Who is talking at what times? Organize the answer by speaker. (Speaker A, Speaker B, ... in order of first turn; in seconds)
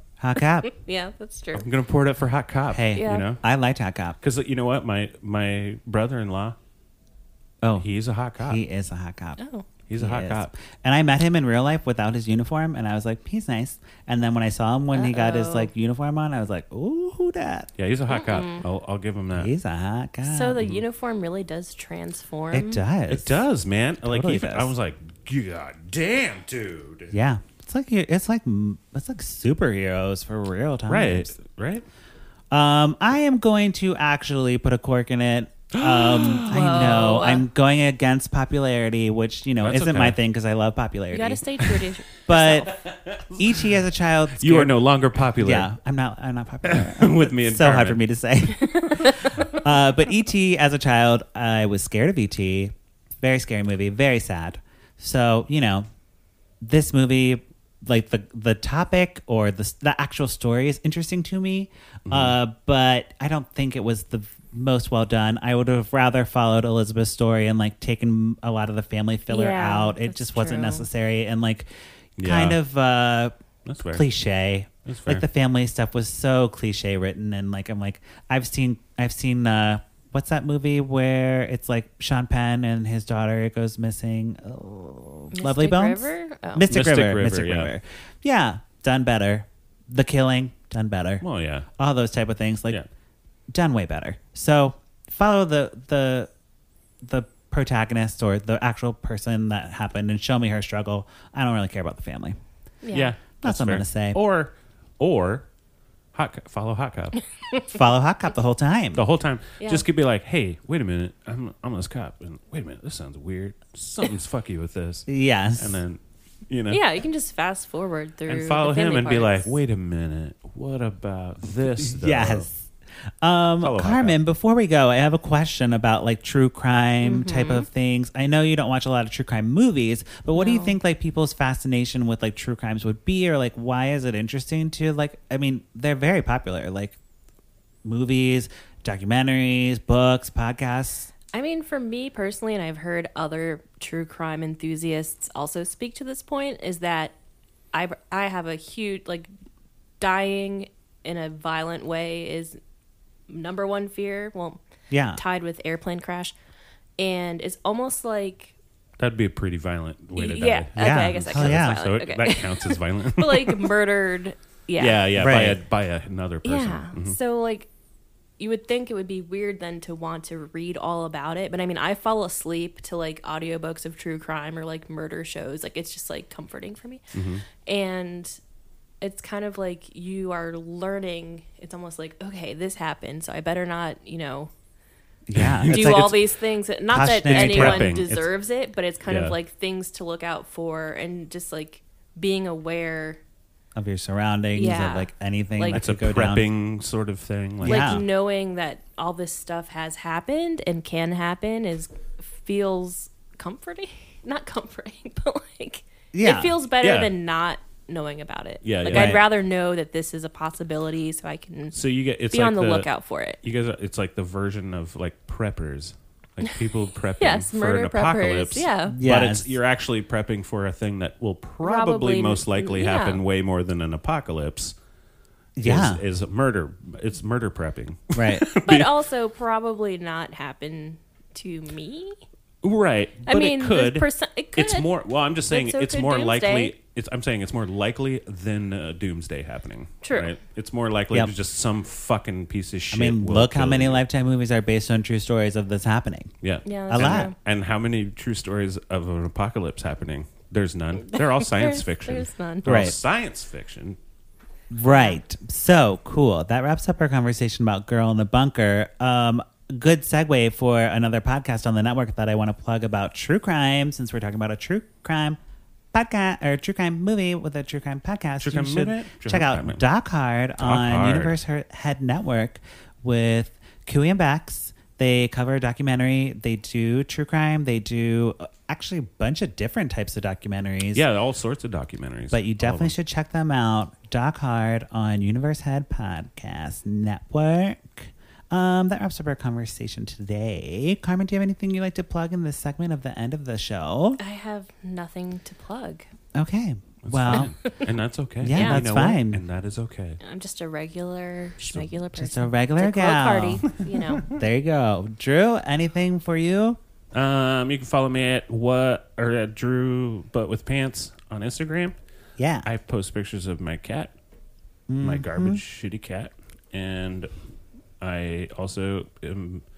Speaker A: 0.2-0.7, 2.7-4.2, 8.4-9.4, 10.0-17.7, 19.3-20.6, 22.5-23.4, 24.0-24.7, 27.1-31.3, 32.5-41.7, 42.3-42.8, 43.3-44.8, 45.4-55.9, 56.6-71.7, 72.2-73.3, 73.9-91.2, 91.8-92.8, 93.5-96.3, 97.0-102.4, 103.4-104.2, 107.7-109.0, 115.1-115.8, 121.8-122.7, 123.2-137.0, 137.8-141.1, 154.9-155.2, 160.8-161.8, 165.2-165.6, 185.3-186.2, 186.9-188.3, 193.8-196.5, 197.6-198.0, 206.1-206.6, 208.9-209.2, 218.9-219.6, 225.6-226.0, 228.2-228.5, 242.9-246.3, 246.9-247.3, 252.7-252.9, 254.7-265.4, 265.9-281.0, 282.3-294.2, 296.4-297.5, 298.4-299.4, 302.2-303.6, 304.2-306.8, 312.4-312.7, 314.9-315.6
Speaker B: 0.6-1.7, 3.0-3.2, 9.4-9.7, 14.9-15.7, 18.1-18.6, 20.2-22.8, 36.2-37.5, 41.1-42.7, 48.7-49.6, 69.3-70.8, 85.3-86.7, 102.8-103.1, 109.6-109.8, 116.7-119.5, 127.0-127.7, 130.3-130.8, 141.3-147.2, 147.7-149.3, 150.0-152.6, 153.3-154.6, 155.1-156.3, 157.0-158.6, 160.2-165.1, 166.4-167.7, 168.4-178.4, 179.0-184.5, 185.6-193.2, 194.6-195.8, 197.7-211.8, 212.3-213.4, 217.2-219.0, 221.6-223.2, 228.6-232.2, 233.3-234.9, 235.5-236.8, 240.0-240.3, 246.7-247.3, 251.1-252.7, 254.9-255.2, 294.2-296.1, 297.3-297.8, 298.5-298.8, 300.2-304.3
Speaker C: 1.6-3.4, 4.2-6.6, 7.8-8.6, 9.9-10.5, 17.8-19.5, 23.1-27.1, 30.9-31.9, 35.7-36.6, 39.6-40.2, 42.8-43.5, 44.4-45.7, 46.6-48.0, 62.1-62.4, 72.2-72.6, 73.7-74.1, 74.9-75.2, 86.7-87.7, 91.2-91.7, 102.9-105.5, 106.1-107.2, 109.0-116.8, 118.3-122.5, 123.6-124.2, 159.0-163.7, 164.8-167.2, 177.1-177.4, 185.3-186.1, 187.3-188.2, 189.1-189.4, 195.7-198.1, 206.8-207.1, 208.6-209.2, 211.7-212.9, 213.4-224.8, 225.6-229.0, 232.6-244.0, 246.4-254.0, 268.4-269.8, 270.6-271.4, 280.9-282.9, 297.0-300.2, 307.1-312.0, 312.6-314.1, 315.0-317.3, 318.0-319.6